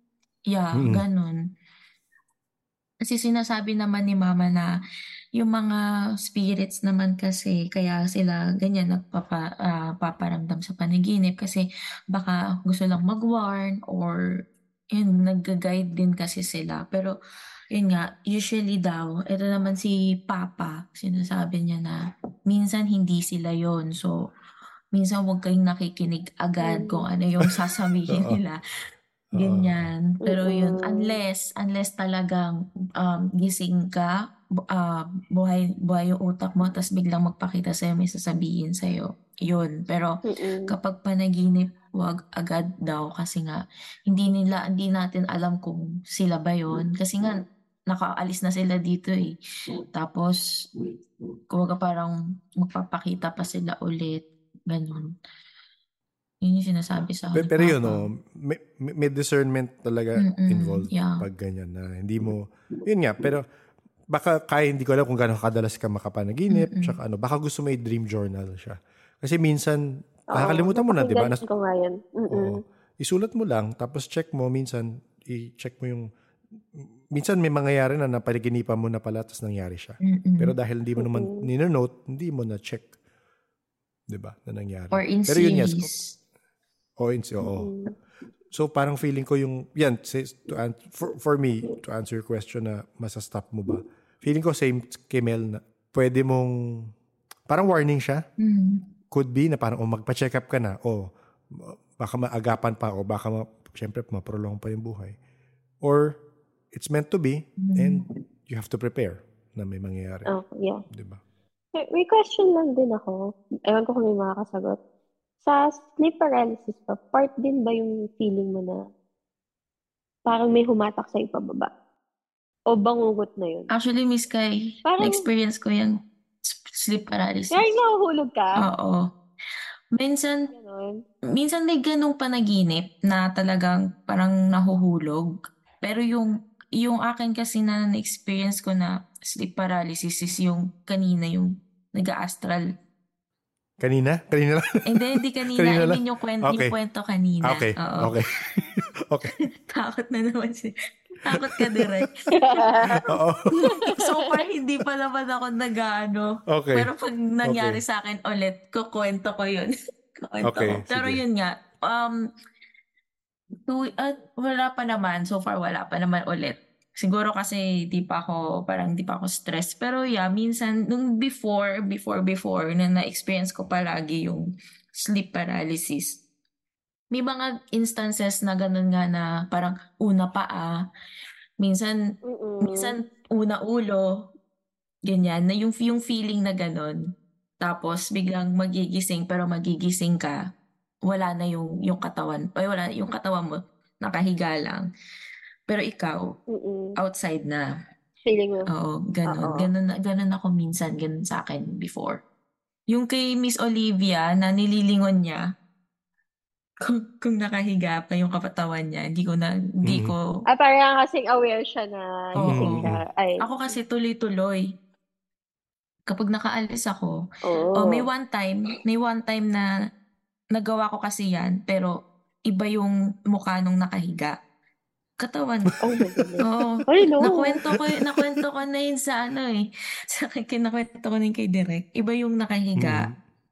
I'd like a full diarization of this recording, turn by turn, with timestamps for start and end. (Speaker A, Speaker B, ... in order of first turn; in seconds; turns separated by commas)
Speaker A: 0.5-1.4, Speaker B: 0.8-1.0, Speaker A: 3.1-4.7, Speaker A: 5.4-14.2, Speaker A: 14.9-17.1, Speaker A: 17.7-21.9, Speaker A: 22.5-24.1, Speaker A: 24.9-28.6, Speaker C: 26.6-27.0, Speaker B: 28.1-28.4, Speaker B: 29.4-29.9, Speaker A: 29.4-34.1, Speaker C: 30.2-31.1, Speaker A: 34.7-49.3, Speaker C: 40.3-40.7, Speaker A: 50.0-50.9, Speaker A: 51.5-55.1, Speaker A: 56.4-58.0, Speaker B: 57.4-63.4, Speaker A: 60.2-61.2, Speaker B: 64.1-71.4, Speaker A: 66.5-67.0, Speaker C: 70.3-72.6, Speaker B: 72.3-76.1, Speaker B: 76.8-82.9, Speaker A: 80.0-80.5, Speaker C: 81.0-81.5, Speaker B: 84.1-85.9, Speaker A: 84.9-86.2, Speaker B: 87.0-87.7, Speaker C: 87.5-87.9, Speaker B: 88.5-96.5, Speaker B: 97.5-98.2, Speaker A: 98.4-98.8, Speaker B: 99.1-101.0, Speaker B: 101.5-105.2, Speaker B: 105.8-106.2, Speaker B: 106.7-110.3, Speaker A: 107.6-108.1, Speaker C: 110.3-110.8, Speaker B: 110.9-111.2, Speaker C: 111.8-114.8, Speaker C: 115.4-118.8, Speaker C: 120.3-121.7, Speaker C: 122.7-123.7, Speaker A: 123.8-127.8, Speaker C: 124.9-125.2, Speaker C: 127.5-128.6, Speaker A: 128.6-129.1, Speaker A: 129.9-130.5, Speaker C: 130.5-131.0, Speaker A: 131.3-142.7, Speaker B: 143.8-146.7, Speaker A: 144.9-148.6, Speaker B: 147.4-149.3, Speaker A: 149.7-153.0, Speaker B: 151.4-152.1, Speaker C: 152.3-153.0, Speaker B: 153.1-153.5, Speaker A: 153.6-159.7, Speaker C: 153.7-154.2, Speaker B: 156.5-156.9, Speaker B: 157.4-157.8, Speaker A: 160.2-162.2, Speaker B: 160.4-161.2, Speaker A: 163.7-174.5, Speaker A: 175.0-176.2, Speaker A: 177.1-180.8, Speaker A: 181.6-182.0, Speaker C: 182.3-183.0, Speaker A: 182.6-184.1, Speaker A: 185.1-187.0, Speaker A: 187.6-190.4, Speaker A: 191.1-194.8, Speaker A: 195.7-196.2, Speaker C: 196.5-197.0, Speaker A: 197.0-197.6, Speaker C: 198.3-198.7, Speaker A: 198.7-202.2, Speaker C: 199.3-199.7, Speaker A: 202.9-205.4, Speaker A: 206.8-210.3, Speaker B: 209.8-210.2, Speaker C: 210.5-213.4, Speaker B: 212.4-213.0, Speaker A: 212.4-212.9, Speaker A: 213.4-214.7, Speaker A: 216.1-217.2, Speaker C: 217.4-218.1, Speaker A: 217.8-219.7, Speaker A: 220.6-221.9, Speaker A: 222.5-224.3, Speaker A: 225.2-225.8, Speaker C: 225.8-227.5, Speaker A: 226.4-233.1, Speaker B: 227.7-228.4, Speaker B: 232.8-233.2